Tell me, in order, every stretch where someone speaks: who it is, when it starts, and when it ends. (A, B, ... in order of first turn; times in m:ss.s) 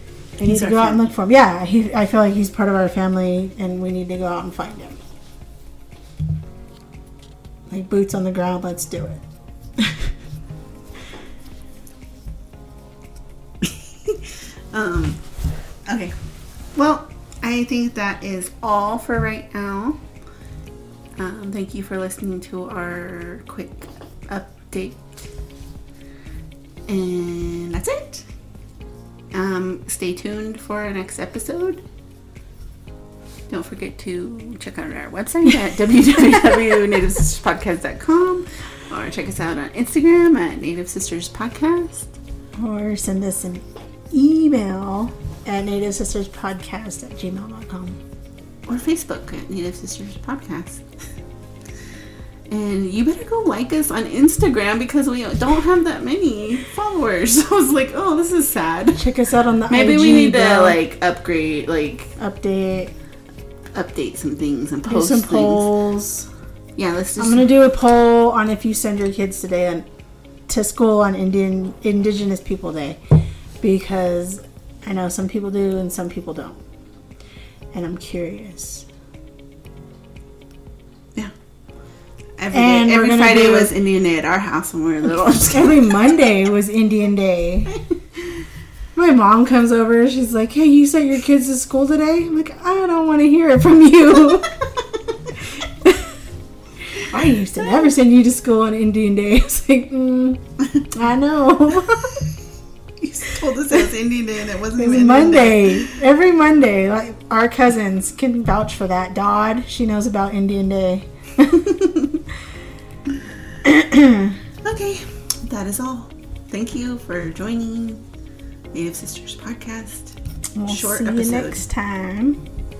0:00.4-0:05.0 A
0:00.4-0:01.1 B
0:07.7-0:09.2 A
0:09.8-0:10.1 A
0:13.6-0:15.2 B
0:15.8-0:16.1 B
0:16.7-0:20.0 B
0:21.2-0:25.2 B
0:26.9-0:28.2 B
0:29.3-0:31.8 B
0:33.5-0:42.1 B
0:42.6-0:48.0 A
0:48.6-0:50.8 B
0:52.5-0:59.0 B
0:58.9-1:00.8 A
0:59.7-1:02.1 B
1:02.2-1:02.9 A
1:03.7-1:05.7 B
1:04.8-1:06.3 A
1:06.8-1:07.5 B
1:07.2-1:09.8 A
1:10.5-1:13.0 A
1:13.6-1:16.6 A
1:17.7-1:18.8 A
1:22.4-1:26.2 B
1:22.5-1:23.7 A
1:25.2-1:27.8 A
1:28.9-1:34.6 A
1:35.8-1:36.1 A
1:36.9-1:42.2 A
1:43.0-1:45.9 B
1:44.8-1:52.0 A
1:53.6-1:54.4 A
1:54.6-1:58.0 B
1:58.7-2:01.6 B
2:00.6-2:02.4 A